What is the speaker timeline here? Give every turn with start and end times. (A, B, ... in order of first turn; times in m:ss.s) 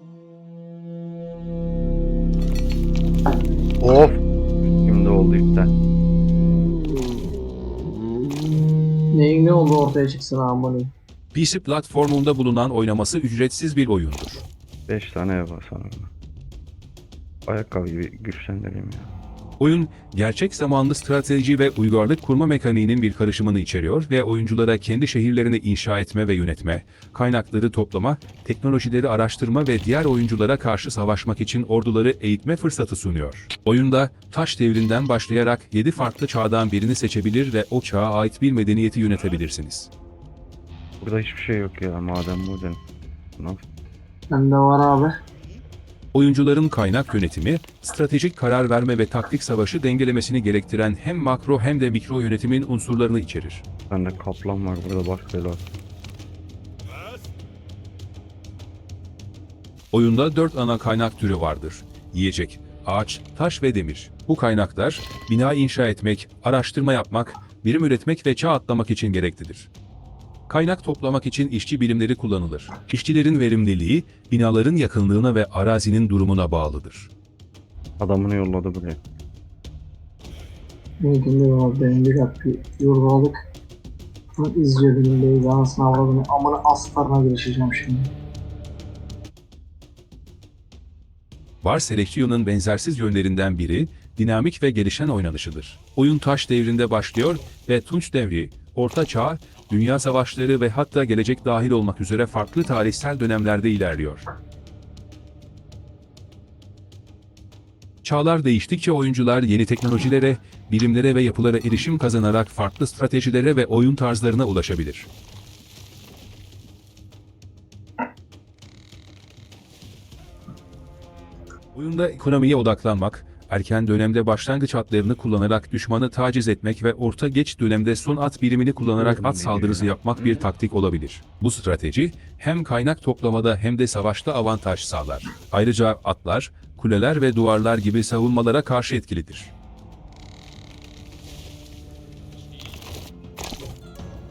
0:03.8-0:04.2 A
0:04.7-0:05.7 A
0:09.1-0:10.9 B
0:11.3-0:14.4 C
0:14.9-0:16.1 A
0:17.4-0:19.1 A
0:19.6-0:39.9 C
0:41.0-0:42.8 A
0:43.4-0:43.6 A
0:44.3-0:45.1 B
0:46.1-0:53.6 C
0:53.9-0:55.6 A
0:59.9-1:09.7 C
1:10.5-1:17.1 C
1:18.0-1:19.0 A
1:21.0-1:23.4 B
1:24.4-1:28.1 B
1:31.6-1:44.2 C
1:48.0-1:55.1 C
2:01.7-2:19.5 C
2:09.0-2:10.4 A